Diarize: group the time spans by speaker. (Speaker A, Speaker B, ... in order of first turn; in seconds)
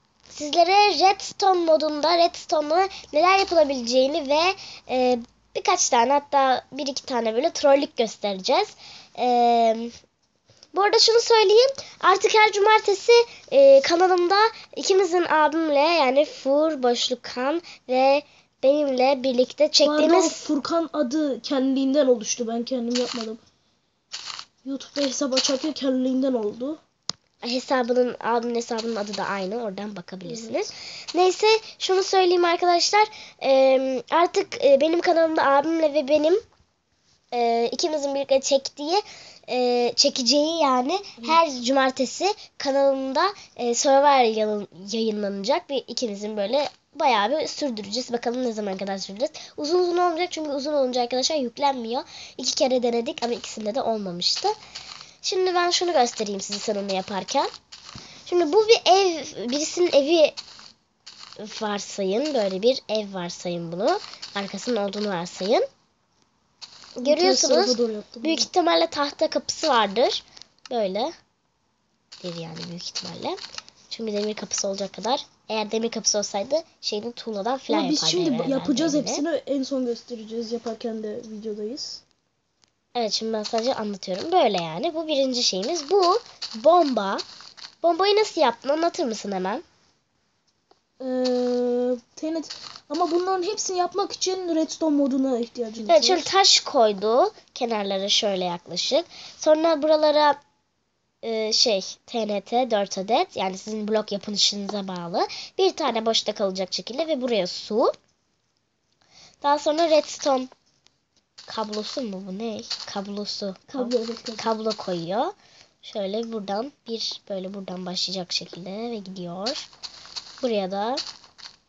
Speaker A: 0.3-9.9, 10.7-20.5, 27.4-36.4, 37.3-54.5, 55.2-57.5, 58.3-60.4, 61.4-65.7, 67.0-71.1, 72.2-73.4, 73.9-79.2, 83.0-87.2, 87.8-89.6, 95.9-100.4, 101.2-107.9, 109.4-110.5, 111.5-119.7, 120.4-121.0
Speaker B: 19.8-23.4, 24.6-26.8, 30.3-30.6, 67.0-68.5, 77.7-82.0, 91.0-96.3, 113.7-114.5